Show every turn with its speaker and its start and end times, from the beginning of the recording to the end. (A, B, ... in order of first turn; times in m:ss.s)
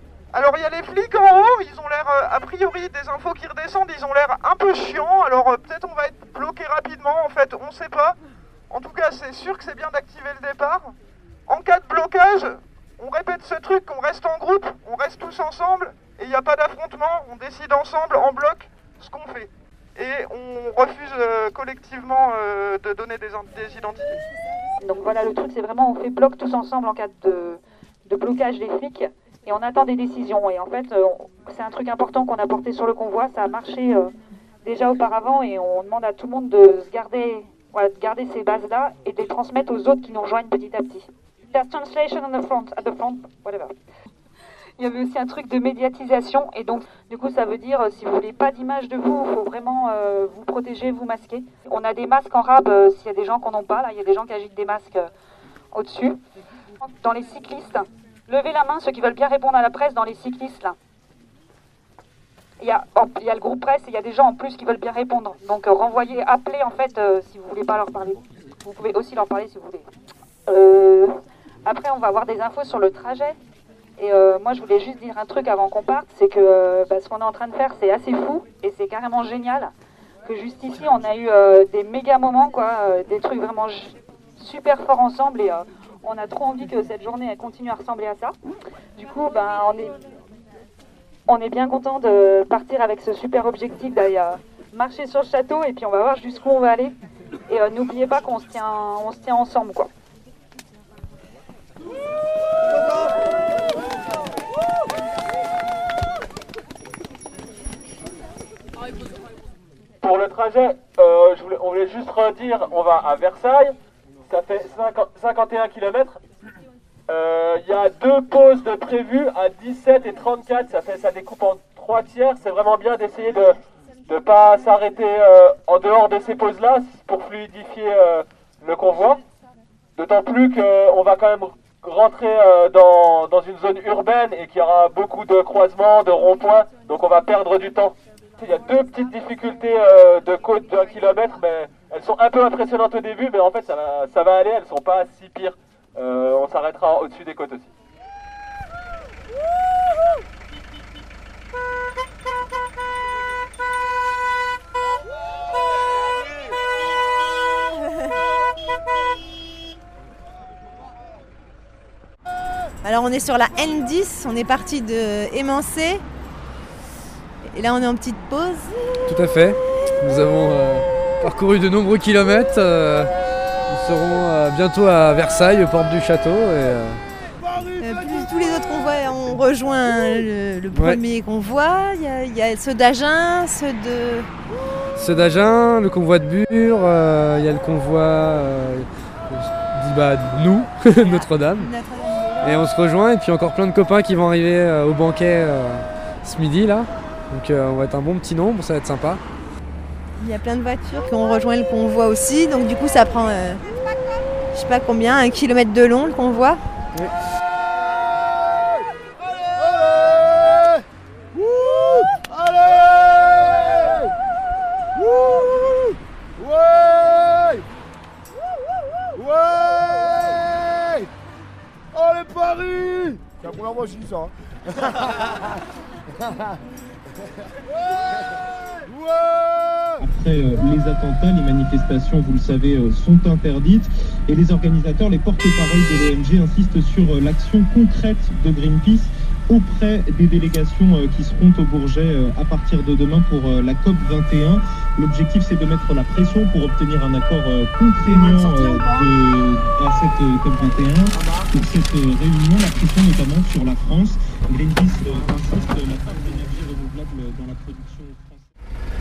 0:00.3-0:08.2 A
0:08.7-0:10.9 A
0:11.5-0:24.2 A
0:24.8-0:34.1 B
0:34.6-0:43.7 B
0:44.8-0:55.1 B
0:55.7-0:56.2 B
0:56.8-1:00.8 B
1:02.6-1:09.8 B
1:10.5-1:11.1 B
1:11.6-1:13.4 B
1:14.0-1:19.7 B
1:20.2-1:28.3 B
1:29.0-1:29.9 B
1:31.3-1:36.9 B
1:37.5-1:39.9 B
1:50.0-1:53.7 C
1:54.2-1:56.2 C
1:57.1-2:03.6 C
2:04.1-2:09.2 C
2:10.0-2:27.7 C
2:42.8-2:46.0 D
2:47.4-2:48.7 D
2:49.1-2:53.1 E
2:53.7-2:57.0 E
2:57.4-2:58.6 F
2:57.8-3:04.3 D
3:00.7-3:01.0 E
3:05.0-3:11.7 E
3:11.0-3:12.6 D
3:12.4-3:19.2 E
3:20.2-3:23.6 D
3:24.5-3:26.6 D
3:28.4-3:28.9 F
3:29.6-3:30.8 F
3:31.3-3:34.1 F
3:35.0-3:37.6 F
3:39.2-3:41.1 F
3:41.9-3:45.4 F
3:48.9-3:50.0 F
3:50.0-4:18.5 G